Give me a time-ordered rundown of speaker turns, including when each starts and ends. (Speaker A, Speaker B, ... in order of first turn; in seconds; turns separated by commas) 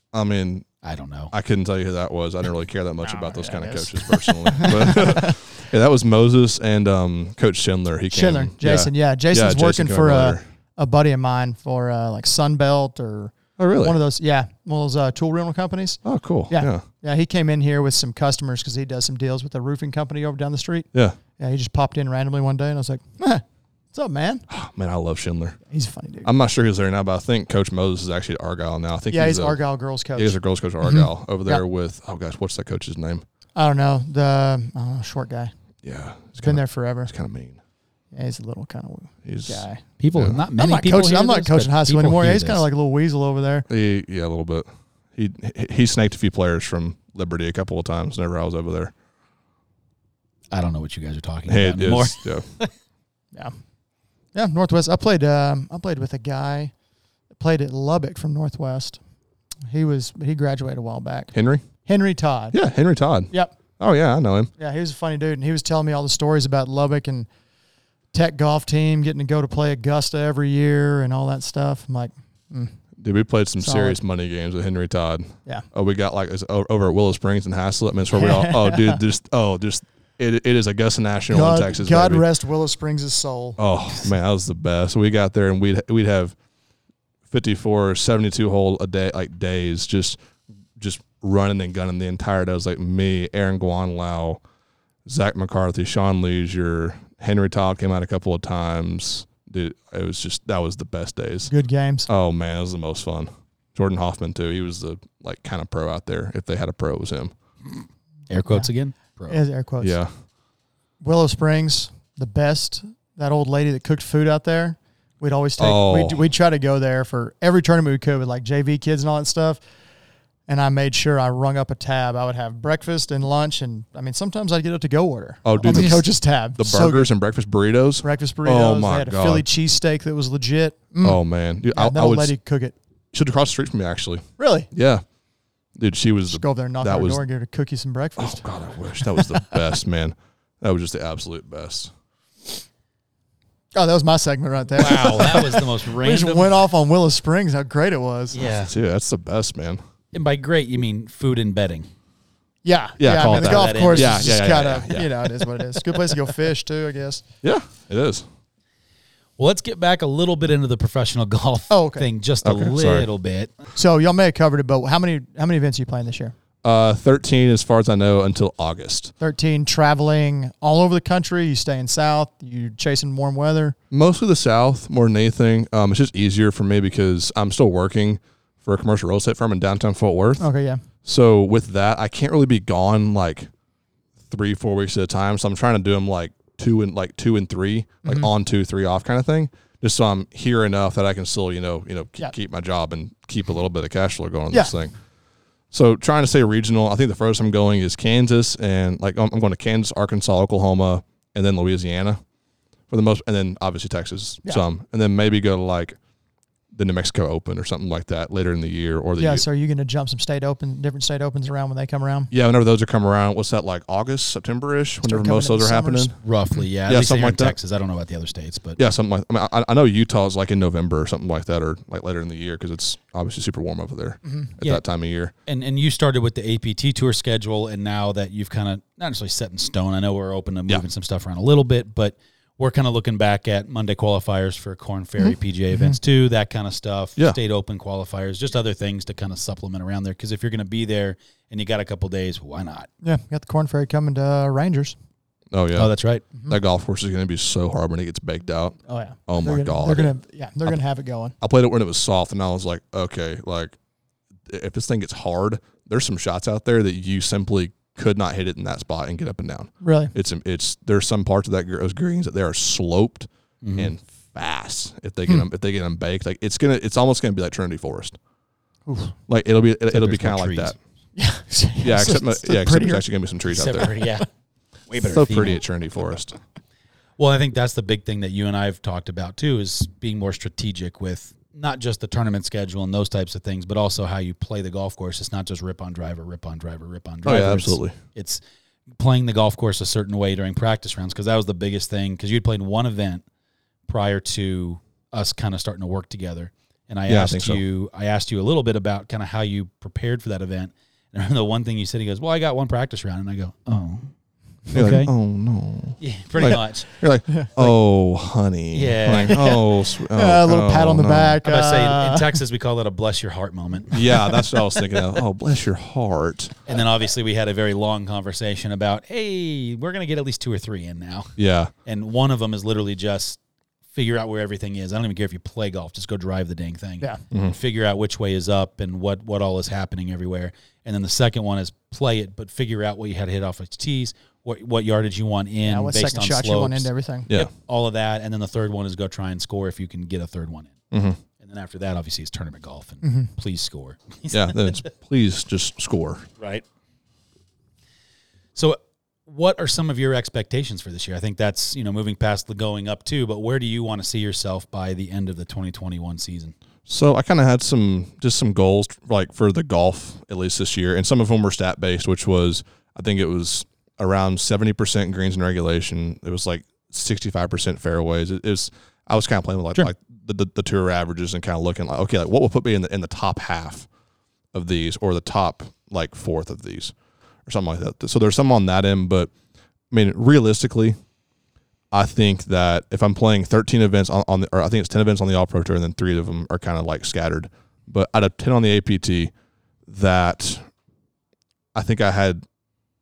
Speaker A: 0.1-0.7, Speaker B: 0.8-1.3, Speaker A: 1.3-10.4, Speaker C: 3.0-5.4, Speaker C: 8.1-20.9, Speaker A: 13.6-14.0, Speaker A: 16.0-16.8, Speaker C: 21.4-24.4, Speaker A: 24.5-25.6, Speaker C: 25.7-26.3, Speaker A: 26.2-29.6, Speaker C: 29.1-31.6, Speaker A: 30.1-33.2, Speaker C: 33.5-35.5, Speaker A: 35.8-37.6, Speaker C: 36.4-37.1, Speaker C: 38.1-39.8, Speaker A: 39.2-39.6, Speaker B: 40.0-42.6, Speaker C: 40.6-43.7, Speaker A: 43.7-48.9, Speaker B: 50.5-52.7, Speaker A: 51.5-52.4, Speaker C: 54.3-56.7, Speaker C: 57.4-59.0, Speaker C: 59.7-61.3, Speaker A: 61.3-61.6, Speaker C: 61.9-62.6, Speaker A: 62.5-64.5, Speaker C: 64.6-67.3, Speaker C: 68.1-72.8, Speaker A: 73.0-82.2, Speaker C: 73.6-74.0, Speaker C: 78.1-79.0, Speaker C: 81.3-83.6, Speaker A: 83.6-86.3, Speaker A: 87.3-90.2, Speaker A: 90.8-94.4, Speaker A: 95.0-101.5, Speaker C: 101.5-102.1, Speaker A: 102.1-107.3, Speaker B: 108.3-109.4, Speaker C: 109.3-110.0, Speaker A: 109.8-110.1, Speaker C: 111.0-119.6, Speaker A: 115.6-116.2, Speaker C: 120.5-127.1, Speaker A: 125.4-129.4, Speaker C: 128.0-131.2, Speaker A: 131.0-132.3, Speaker C: 131.7-132.8, Speaker A: 133.1-135.0, Speaker C: 134.4-134.7, Speaker A: 135.8-137.2, Speaker C: 136.3-139.4, Speaker A: 138.2-141.9, Speaker C: 143.7-148.5, Speaker B: 144.8-146.6, Speaker B: 148.3-148.7, Speaker A: 148.6-149.8, Speaker B: 150.1-151.9, Speaker C: 152.6-157.2, Speaker A: 153.0-155.5, Speaker B: 153.2-154.3, Speaker A: 157.4-158.2, Speaker B: 159.4-163.5, Speaker C: 161.7-162.0, Speaker A: 162.4-163.1, Speaker C: 163.8-166.3, Speaker A: 166.6-169.1, Speaker C: 169.2-173.7, Speaker A: 173.9-180.4, Speaker C: 180.4-180.8, Speaker A: 181.0-183.5, Speaker A: 184.3-194.9, Speaker C: 188.0-188.3, Speaker A: 195.7-202.2, Speaker A: 202.9-206.0, Speaker A: 206.7-209.4, Speaker C: 209.2-212.3, Speaker A: 212.3-216.2, Speaker C: 215.0-216.1, Speaker B: 216.2-218.8, Speaker A: 216.9-217.5, Speaker A: 218.8-225.3, Speaker C: 224.2-224.5, Speaker B: 225.4-242.9, Speaker C: 235.7-236.0, Speaker C: 243.0-244.9, Speaker A: 245.5-245.9, Speaker B: 245.8-246.2, Speaker A: 246.5-250.1, Speaker C: 248.9-251.3, Speaker A: 251.4-253.8, Speaker A: 254.5-268.2, Speaker C: 259.8-260.1, Speaker B: 263.6-263.9, Speaker C: 268.9-269.1, Speaker A: 269.3-270.8, Speaker B: 269.9-270.7, Speaker C: 271.1-273.0, Speaker A: 271.8-274.0, Speaker B: 273.4-274.3, Speaker B: 274.9-275.6, Speaker A: 275.0-276.4, Speaker B: 277.2-288.4, Speaker A: 287.2-288.0, Speaker B: 289.0-293.2, Speaker B: 293.9-304.1, Speaker A: 297.1-297.6, Speaker B: 304.7-305.1, Speaker A: 304.7-311.4, Speaker B: 306.0-306.9, Speaker B: 308.7-309.6, Speaker C: 310.1-312.4, Speaker B: 311.4-314.0, Speaker A: 313.9-316.5, Speaker B: 316.6-323.4, Speaker A: 321.4-321.7, Speaker B: 323.9-340.7, Speaker C: 335.6-337.3, Speaker A: 340.9-341.2, Speaker B: 341.4-344.9, Speaker C: 343.0-343.3, Speaker A: 344.3-346.3, Speaker B: 346.4-346.6, Speaker B: 348.6-356.5, Speaker A: 356.9-373.9, Speaker A: 374.5-376.9, Speaker A: 377.4-379.3, Speaker A: 379.9-381.0, Speaker A: 381.9-389.3, Speaker A: 389.9-390.6, Speaker A: 391.7-392.4